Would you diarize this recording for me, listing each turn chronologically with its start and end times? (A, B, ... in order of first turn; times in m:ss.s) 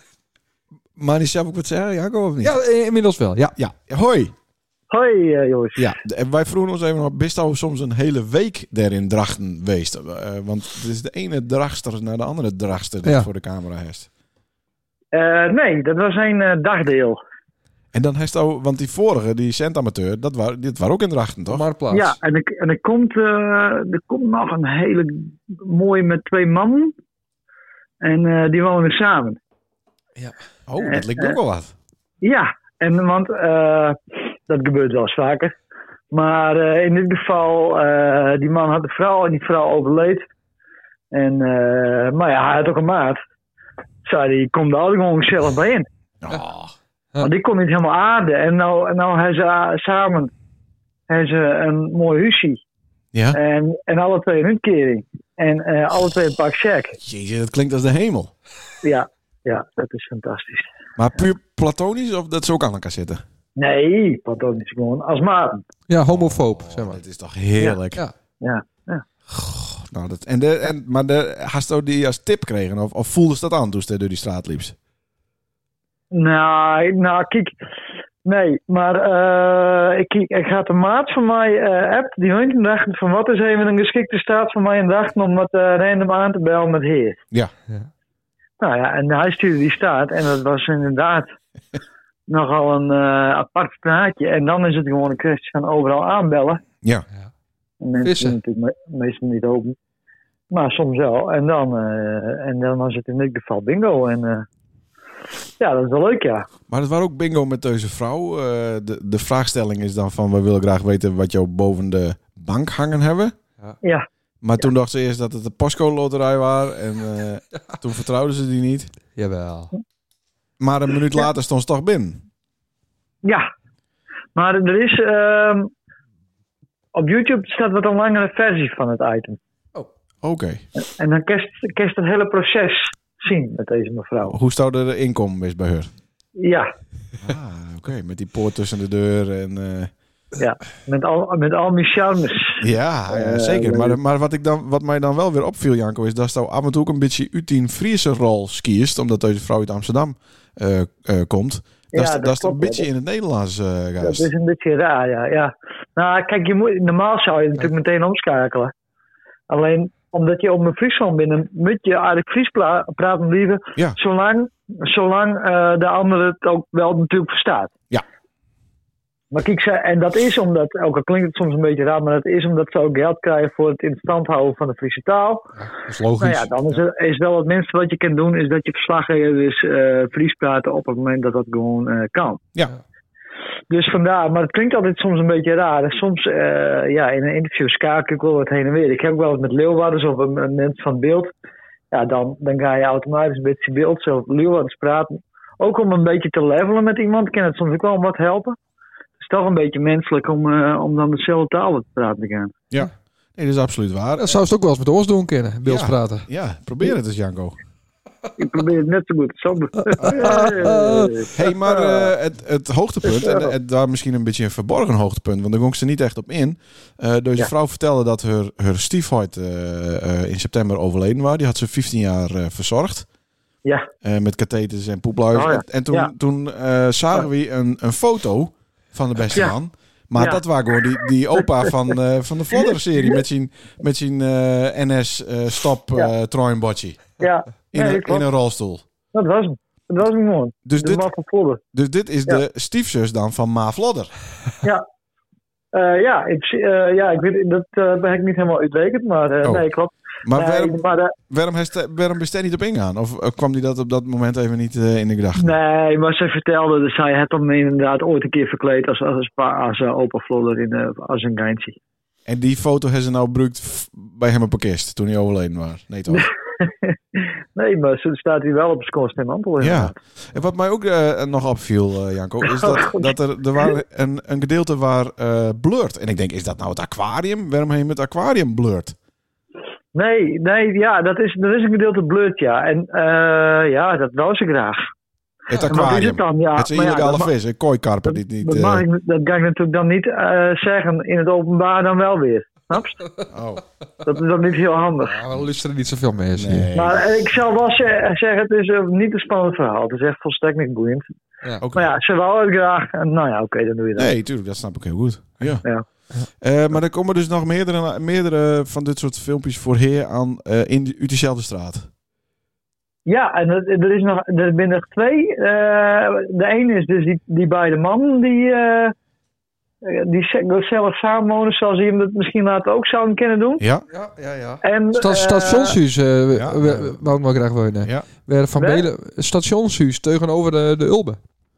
0:01.0-0:02.5 A
0:02.4-0:03.5 B
0:03.6-0:04.3 A
0:04.9-0:05.9 C
0:05.8-0:14.1 A
0:13.0-0:13.3 B
0:15.1-0:17.2 C
0:17.9-0:21.6 A
0:21.5-0:22.2 B
0:21.9-0:26.9 C
0:28.0-0:29.4 C
0:30.7-0:31.7 A
0:30.8-0:31.4 C
0:32.2-0:35.5 C
0:36.1-0:40.2 C
0:41.1-0:43.2 C
0:44.0-0:45.8 C
0:46.2-0:46.7 A
0:47.2-0:50.3 C
0:51.1-0:52.6 C
0:53.1-0:53.4 A
0:53.3-0:57.0 C
0:57.0-0:58.3 A
0:58.8-1:00.7 C
1:01.0-1:03.2 A
1:03.6-1:05.6 C
1:05.9-1:07.0 B
1:06.1-1:08.0 A
1:08.4-1:09.0 C
1:09.5-1:14.7 A
1:16.1-1:17.5 C
1:18.2-1:27.2 C
1:28.6-1:31.3 C
1:32.3-1:36.6 C
1:37.8-1:39.8 C
1:38.0-1:38.4 B
1:40.5-1:44.4 C
1:45.6-1:46.4 C
1:46.7-1:53.3 A
1:54.4-1:58.9 A
1:59.1-1:59.7 B
2:00.6-2:02.2 A
2:04.3-2:05.7 C
2:06.9-2:09.4 C
2:10.2-2:10.6 A
2:10.8-2:14.4 C
2:14.2-2:15.9 A
2:16.4-2:16.7 C
2:17.2-2:19.9 A
2:20.4-2:24.0 C
2:22.6-2:34.3 A
2:31.9-2:32.8 C
2:34.0-2:38.7 C
2:39.5-2:47.7 C
2:49.3-2:55.5 C
2:55.6-2:56.5 B
2:56.2-3:02.4 C
3:03.7-3:11.3 C
3:11.9-3:18.6 C
3:19.2-3:22.5 C
3:22.7-3:24.4 A
3:24.2-3:26.3 B
3:25.6-3:27.6 A
3:28.4-3:32.1 C
3:29.9-3:31.3 B
3:31.3-3:43.1 A
3:33.1-3:33.5 C
3:44.0-3:57.0 A
3:45.3-3:46.1 C
3:50.2-3:50.4 C
3:57.2-3:58.2 C
3:57.7-3:58.8 A
3:59.1-4:01.6 C
4:00.6-4:01.0 A
4:01.7-4:04.1 A
4:05.7-4:11.1 C
4:10.2-4:15.6 A
4:15.4-4:21.8 C
4:22.3-4:26.3 A
4:26.1-4:30.0 C
4:29.6-4:39.0 A
4:32.5-4:33.1 C
4:39.9-4:44.8 C
4:45.5-4:48.8 A
4:45.7-4:47.3 C
4:48.0-4:53.1 C
4:53.3-4:53.6 A
4:54.0-4:55.2 C
4:55.0-4:56.7 B
4:56.3-4:57.2 A
4:56.7-5:01.0 C
5:01.6-5:02.0 A
5:01.7-5:04.1 C
5:04.0-5:05.6 A
5:06.3-5:11.9 A
5:13.0-5:18.9 C
5:19.8-5:23.6 C
5:23.6-5:23.8 A
5:23.9-5:31.2 B
5:24.6-5:25.8 C
5:26.3-5:27.1 A
5:28.6-5:28.8 C